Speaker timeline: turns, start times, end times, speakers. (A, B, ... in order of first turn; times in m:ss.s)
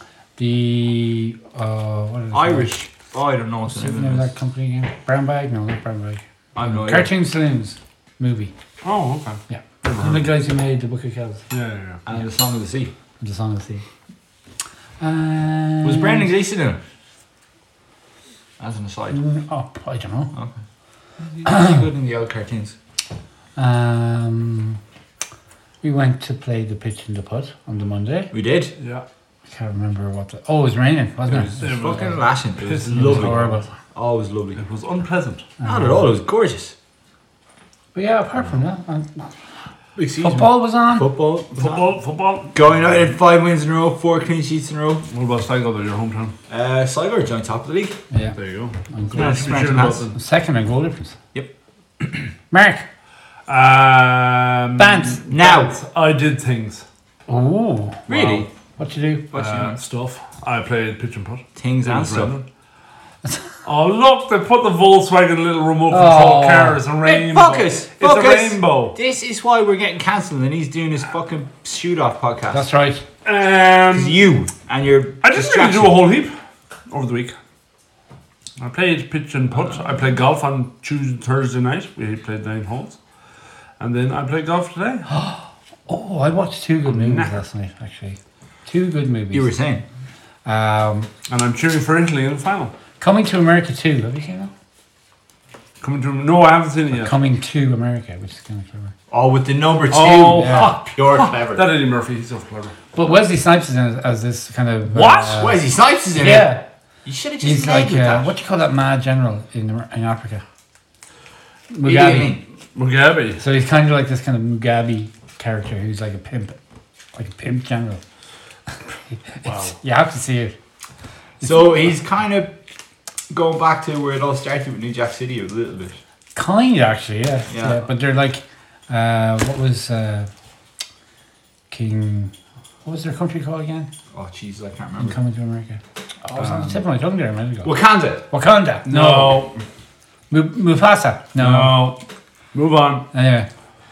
0:00.4-0:02.8 A
0:02.3-0:04.3 B
0:03.7-0:08.5 A
0:06.5-0:07.1 B
0:08.8-0:10.3 C
0:09.5-0:11.4 A
0:11.5-0:12.0 C
0:12.0-0:12.9 B
0:13.2-0:13.8 A
0:15.0-0:16.3 A
0:15.8-0:16.8 B
0:18.6-0:19.2 B
0:19.1-0:20.3 A
0:20.3-0:20.6 B
0:21.3-0:22.8 B
0:21.4-0:21.8 A
0:23.6-0:24.8 A
0:25.8-0:28.3 A
0:28.3-0:28.7 B
0:28.8-0:29.0 C
0:29.5-0:32.1 A
0:31.3-0:33.6 C
0:31.6-0:33.4 B
0:32.9-0:33.7 A
0:33.9-0:34.6 B
0:34.6-0:35.5 C
0:35.6-0:36.1 A
0:35.6-0:36.7 B
0:37.9-0:39.3 A
0:40.0-0:41.9 B
0:40.2-0:41.1 A
0:41.5-0:42.5 C
0:42.5-0:45.0 B
0:45.1-0:46.3 C
0:46.5-0:48.0 B
0:48.1-0:48.4 A
0:48.3-0:50.1 C
0:48.9-0:51.2 A
0:49.1-0:50.1 B
0:51.3-0:52.3 B
0:52.5-0:52.9 A
0:53.5-0:56.8 C
0:54.8-0:55.2 A
0:55.3-0:55.8 B
0:57.3-0:58.1 A
0:58.1-0:58.5 B
0:58.1-0:58.4 C
0:58.8-0:59.3 A
0:59.3-0:59.8 B
0:59.3-1:02.4 C
1:01.6-1:02.3 B
1:03.2-1:03.5 A
1:03.6-1:09.0 C
1:05.9-1:06.8 A
1:07.0-1:12.6 B
1:12.5-1:13.0 A
1:13.2-1:14.2 C
1:13.9-1:16.0 B
1:15.2-1:16.3 C
1:16.9-1:17.4 C
1:18.6-1:23.0 C
1:23.8-1:25.1 C
1:25.1-1:29.5 A
1:26.8-1:27.4 C
1:29.3-1:29.8 B
1:30.4-1:31.1 A
1:31.3-1:32.7 C
1:33.0-1:34.5 A
1:35.8-1:37.1 C
1:36.9-1:38.9 A
1:39.1-1:41.6 B
1:39.9-1:42.7 C
1:40.3-1:40.7 A
1:42.9-1:45.6 A
1:44.9-1:45.4 C
1:45.3-1:48.3 B
1:46.1-1:46.6 A
1:47.4-1:50.4 A
1:51.7-1:52.4 A
1:51.8-1:52.4 B
1:52.7-1:53.4 C
1:53.4-1:56.6 A
1:57.1-1:58.0 A
1:59.1-2:00.5 A
1:59.4-1:59.8 C
2:01.4-2:02.6 B
2:03.3-2:06.0 B
2:06.3-2:10.3 A
2:07.5-2:07.8 B
2:11.7-2:12.3 A
2:12.8-2:13.9 A
2:14.1-2:15.2 B
2:15.0-2:17.7 A
2:17.6-2:18.2 B
2:18.3-2:19.5 A
2:18.8-2:19.6 C
2:20.3-2:21.8 A
2:21.4-2:22.0 C
2:22.5-2:23.0 C
2:23.1-2:23.5 A